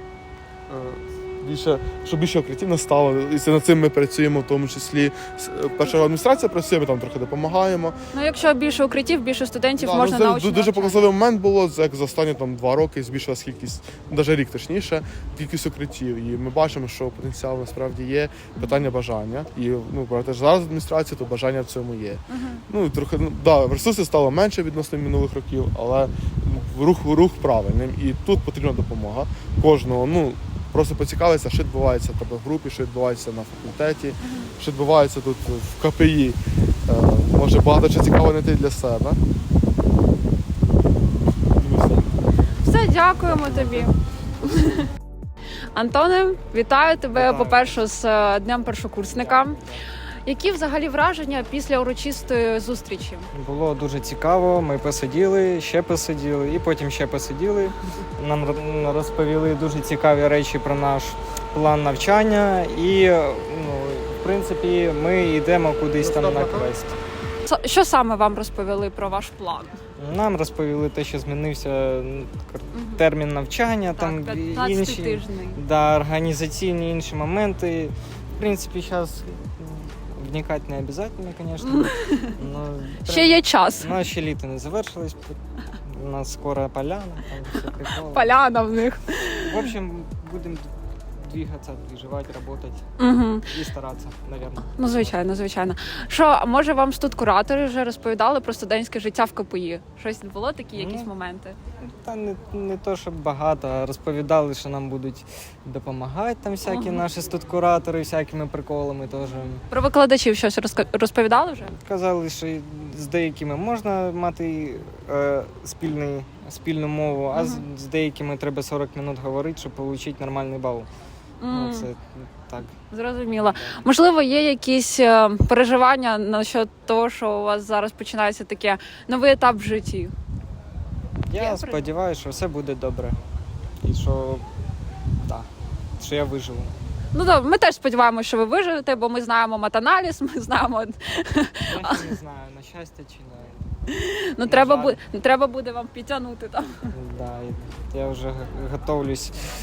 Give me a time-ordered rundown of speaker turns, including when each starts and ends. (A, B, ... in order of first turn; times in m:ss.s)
0:00.7-0:07.9 A
0:08.1-0:11.1 B
0:09.8-0:39.2 A
0:18.5-0:18.9 B
0:22.3-0:22.6 B
0:34.2-0:34.5 B
0:41.5-0:42.1 A
0:42.6-0:43.9 B
0:43.3-0:43.9 A
0:44.4-0:44.8 B
0:45.7-0:49.6 B
0:47.1-0:47.8 C
0:49.1-0:49.8 C
0:50.2-0:53.3 B
0:53.3-1:06.9 C
1:06.0-1:06.7 A
1:07.4-1:09.7 B
1:10.0-1:28.4 C
1:12.7-1:13.0 B
1:13.9-1:15.6 B
1:21.6-1:22.3 B
1:23.0-1:23.9 B
1:28.1-1:29.6 B
1:29.4-1:32.8 C
1:33.0-1:33.5 B
1:33.5-1:35.4 C
1:34.8-1:41.6 B
1:40.7-1:41.1 C
1:41.8-1:49.6 C
1:46.6-1:47.0 B
1:49.7-1:51.7 B
1:51.8-2:00.9 C
1:57.3-1:57.6 B
2:01.4-2:01.9 B
2:01.5-2:02.7 C
2:02.9-2:10.1 B
2:03.3-2:03.8 C
2:11.3-2:13.2 C
2:11.4-2:11.8 B
2:13.8-2:14.4 C
2:15.2-2:16.7 C
2:17.1-2:22.0 B
2:21.7-2:23.6 C
2:23.9-2:26.7 B
2:24.4-2:25.0 C
2:26.9-2:29.3 C